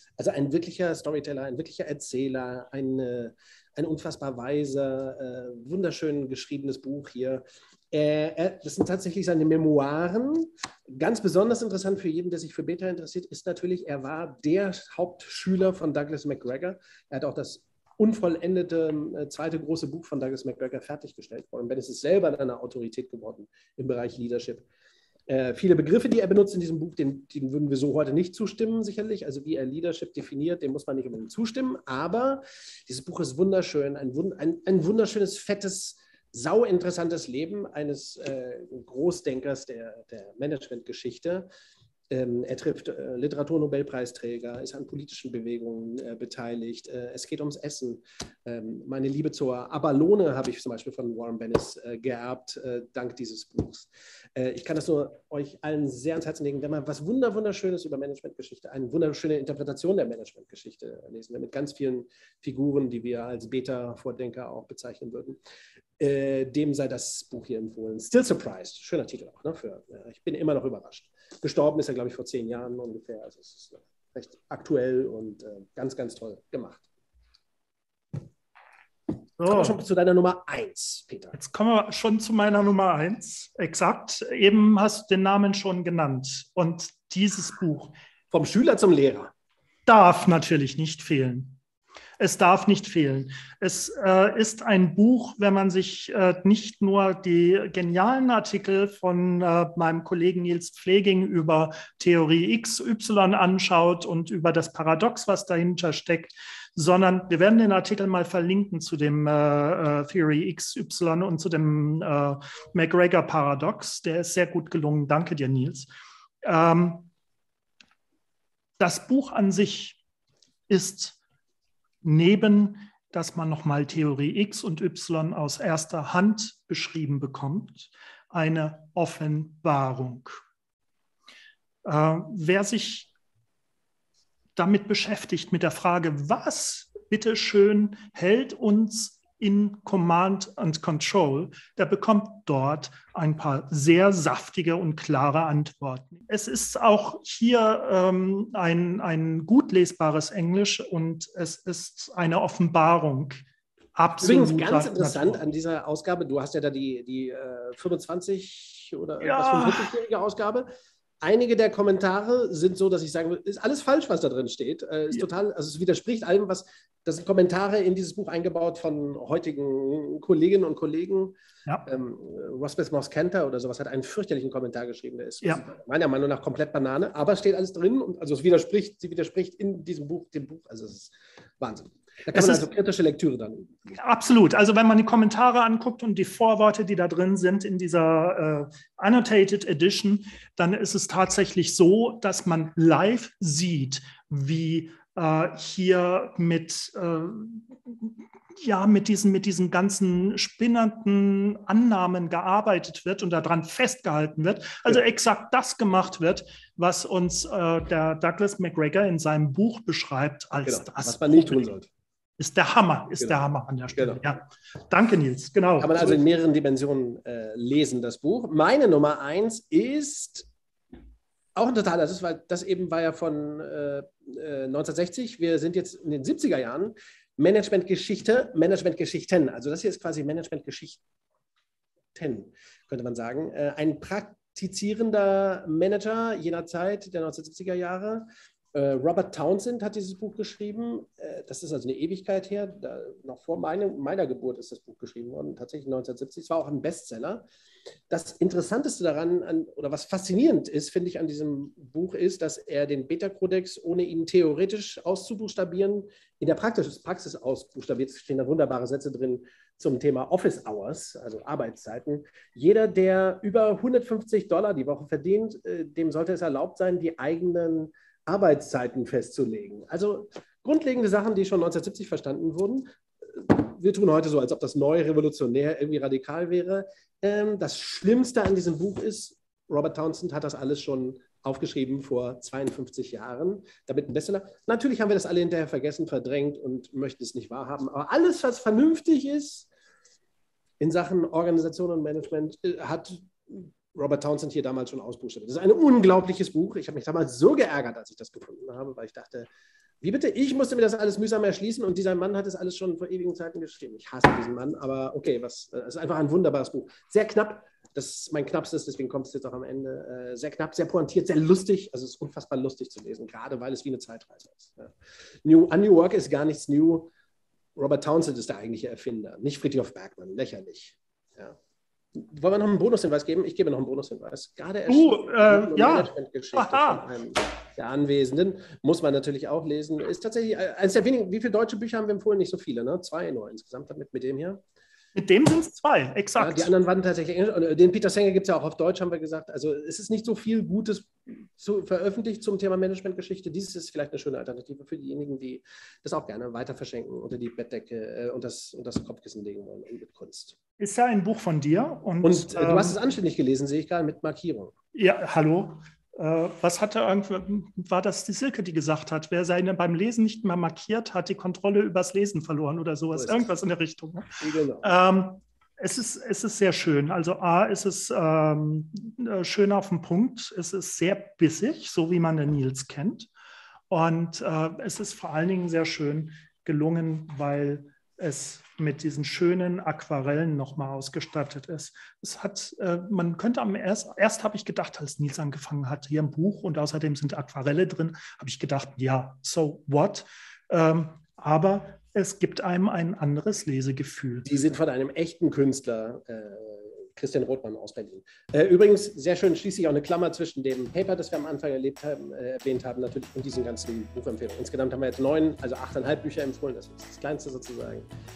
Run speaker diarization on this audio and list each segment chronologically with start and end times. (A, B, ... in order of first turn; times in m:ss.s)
0:00.2-0:24.6 A
0:25.3-0:41.5 A
0:42.1-1:05.4 A
1:06.0-1:16.8 A
1:19.4-1:19.8 B
1:19.4-1:21.4 A
1:21.3-1:27.9 B
1:28.3-1:29.3 A
1:29.9-1:31.6 B
1:32.2-1:55.9 B
1:56.4-1:57.1 B
1:58.8-2:00.0 B
2:00.7-2:01.2 B
2:02.0-2:10.4 B
2:11.8-2:13.1 B
2:14.6-2:33.4 B
2:33.9-2:35.4 B
2:34.2-2:40.7 A
2:39.2-2:39.9 B
2:41.2-2:51.3 A
2:51.8-3:04.0 A
3:02.3-3:02.6 B
3:04.0-3:31.7 B
3:30.6-3:31.9 A
3:32.4-3:36.2 B
3:33.9-3:34.2 A
3:35.8-3:40.5 A
3:41.6-3:51.0 A
3:52.1-4:07.4 A
4:08.1-4:49.7 A
4:50.8-4:59.5 A
5:00.0-5:14.9 A
5:15.4-5:17.1 A
5:17.8-5:21.6 A
5:22.1-5:34.6 A
5:24.9-5:27.0 B
5:35.1-5:36.7 B
5:36.4-5:50.6 A
5:50.8-5:53.0 B
5:52.2-5:54.7 A
5:54.9-6:13.3 B
6:03.1-6:03.5 A
6:04.4-6:04.9 A
6:13.9-6:34.5 B
6:34.4-6:48.0 A